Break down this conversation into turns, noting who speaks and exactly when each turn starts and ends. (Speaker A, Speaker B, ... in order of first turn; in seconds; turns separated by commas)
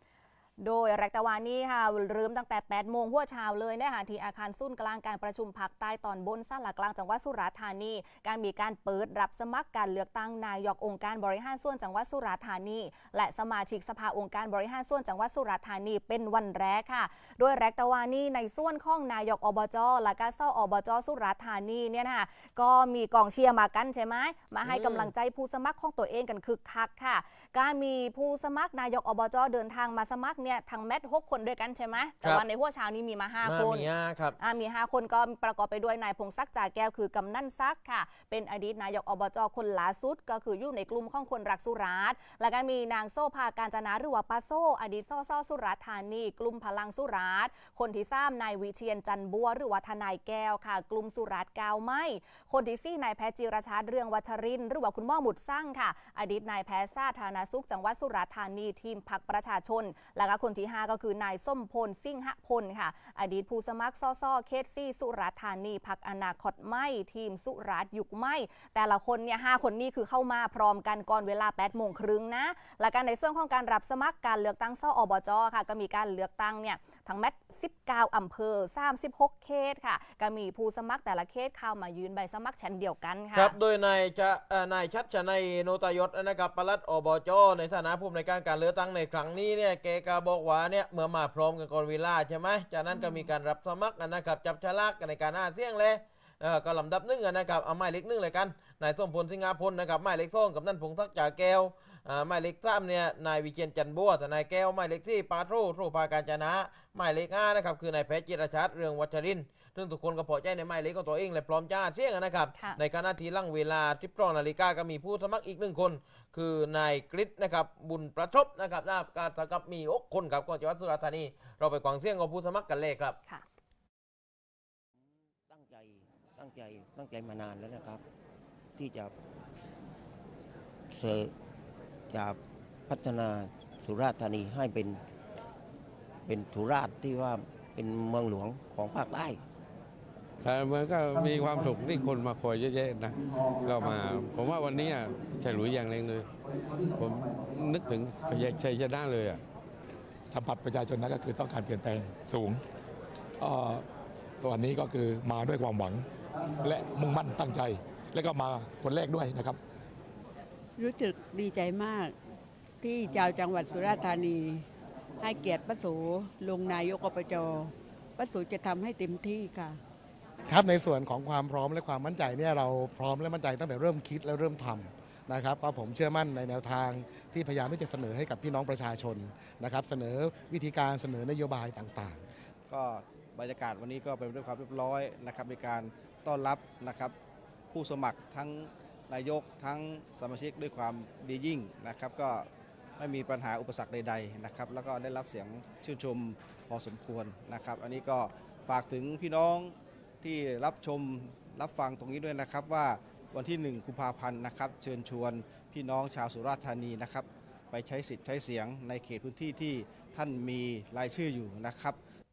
Speaker A: 0.6-33.9, Speaker B: 24.6-25.1, Speaker B: 33.4-34.4, Speaker A: 34.4-83.5, Speaker B: 83.3-123.2, Speaker A: 92.9-93.3, Speaker C: 125.5-128.0, Speaker C: 128.8-129.1, Speaker C: 130.9-131.3, Speaker C: 132.1-132.4, Speaker C: 132.9-135.0, Speaker C: 136.3-139.4, Speaker D: 140.4-146.3, Speaker D: 147.0-149.4, Speaker E: 150.3-152.6, Speaker E: 153.4-153.9, Speaker E: 154.4-159.6, Speaker F: 160.8-162.1, Speaker F: 162.8-164.7, Speaker F: 165.2-169.8, Speaker G: 170.5-182.2, Speaker H: 182.7-187.1, Speaker H: 187.7-212.0